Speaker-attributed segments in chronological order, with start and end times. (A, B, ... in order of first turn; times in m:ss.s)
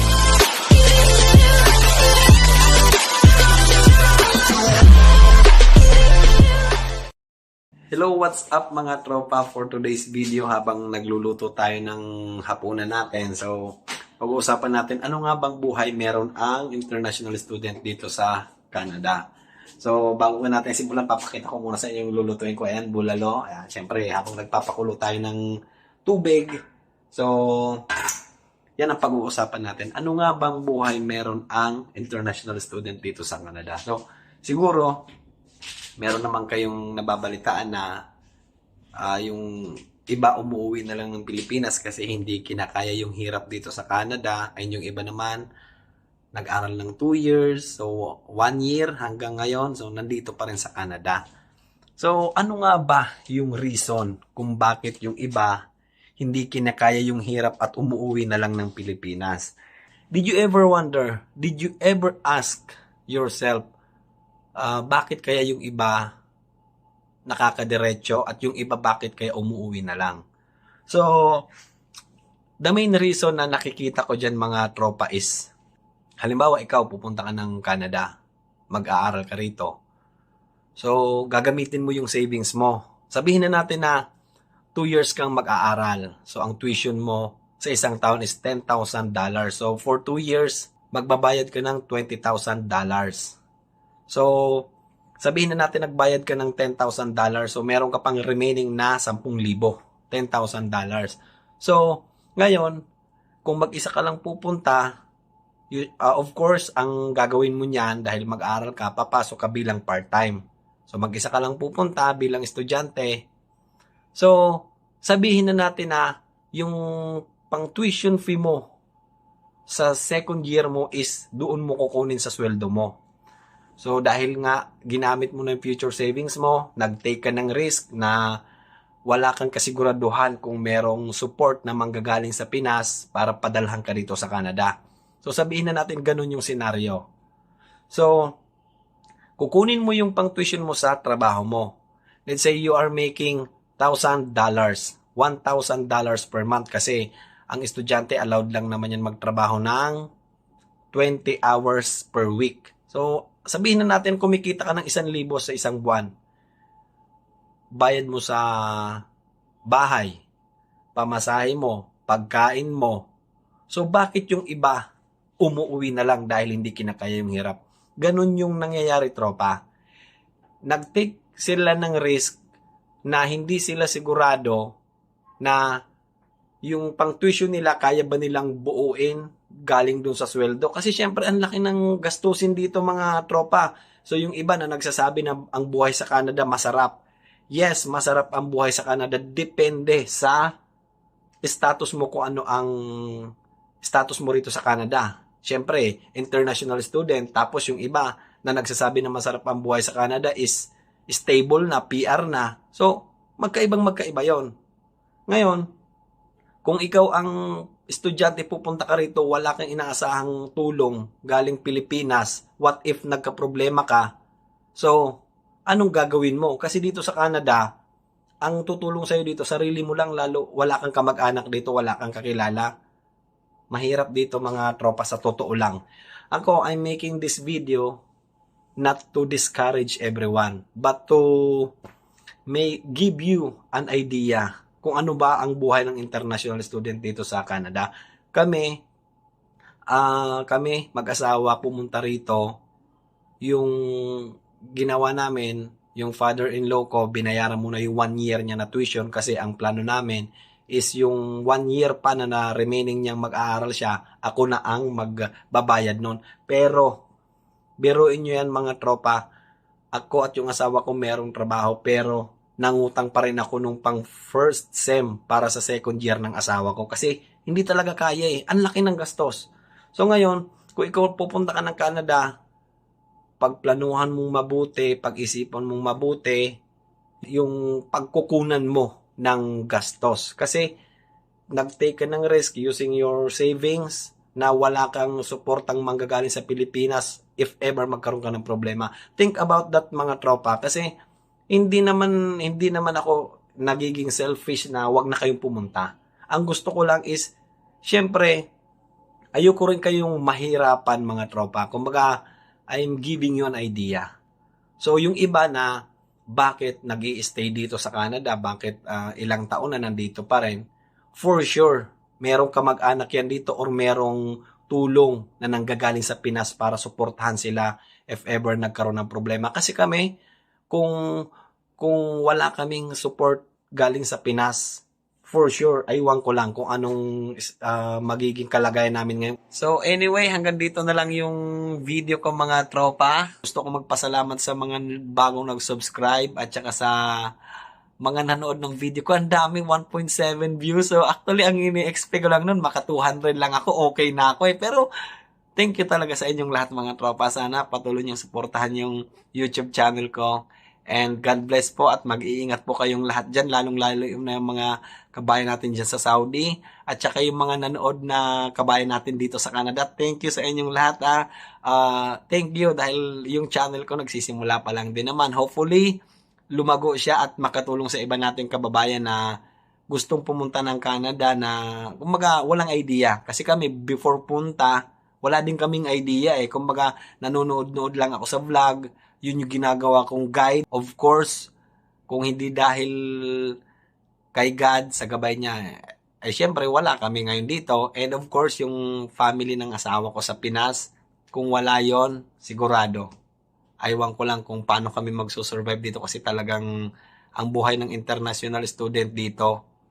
0:07.9-0:19.2 A
0:19.8-0:25.4 A
0:26.0-0:26.6 A
0:27.1-0:27.8 A
0:28.8-0:35.0 A
0:36.0-0:37.9 A
0:39.0-0:45.4 A
0:46.3-0:51.2 A
0:52.0-0:55.6 A
0:56.2-0:59.6 A
1:00.1-1:03.7 A
1:04.6-1:06.1 A
1:07.3-1:10.2 A
1:10.9-1:11.4 A
1:12.6-1:15.5 A
1:16.2-1:18.1 A
1:18.7-1:19.7 A
1:20.8-1:24.0 A
1:24.8-1:33.4 A
1:34.1-1:34.7 A
1:35.2-1:42.8 A
1:43.4-1:44.8 A
1:45.7-1:53.3 A
1:54.1-1:58.7 A
1:59.7-2:03.0 A
2:03.8-2:08.3 A
2:09.1-2:17.0 A
2:17.9-2:18.3 A
2:19.4-2:21.7 A
2:22.3-2:30.0 A
2:30.9-2:36.1 A
2:37.8-2:39.0 A
2:39.7-2:40.2 A
2:41.0-2:43.1 A
2:43.7-2:44.8 A
2:45.4-2:49.6 A
2:50.7-2:52.4 A
2:53.1-2:54.8 A
2:55.4-2:55.8 A
2:56.6-3:07.0 A
3:07.5-3:10.5 A
3:11.4-3:13.3 A
3:13.8-3:24.5 A
3:25.3-3:25.6 A
3:26.6-3:27.3 A
3:27.9-3:34.1 A
3:34.8-3:37.7 A
3:38.4-3:42.7 A
3:43.7-3:45.8 A
3:46.3-3:48.0 A
3:48.8-3:51.7 A
3:52.5-3:58.8 A
3:59.9-4:02.5 A
4:03.4-4:17.0 A
4:17.8-4:19.2 A
4:19.9-4:32.2 A
4:33.4-4:36.6 A
4:37.3-4:40.7 A
4:41.5-4:50.9 A
4:51.5-4:57.3 A
4:57.8-4:58.5 A
4:59.4-5:02.1 A
5:02.7-5:04.1 A
5:04.8-5:05.7 A
5:06.3-5:10.6 A
5:11.2-5:20.1 A
5:20.7-5:21.0 A
5:21.8-5:37.0 A
5:38.0-5:44.9 A
5:45.6-6:06.0 A
6:06.5-6:09.3 A
6:09.9-6:21.5 A
6:22.1-6:23.5 A
6:24.3-6:25.6 A
6:26.2-6:33.1 A
6:33.8-6:36.7 A
6:37.4-6:39.6 A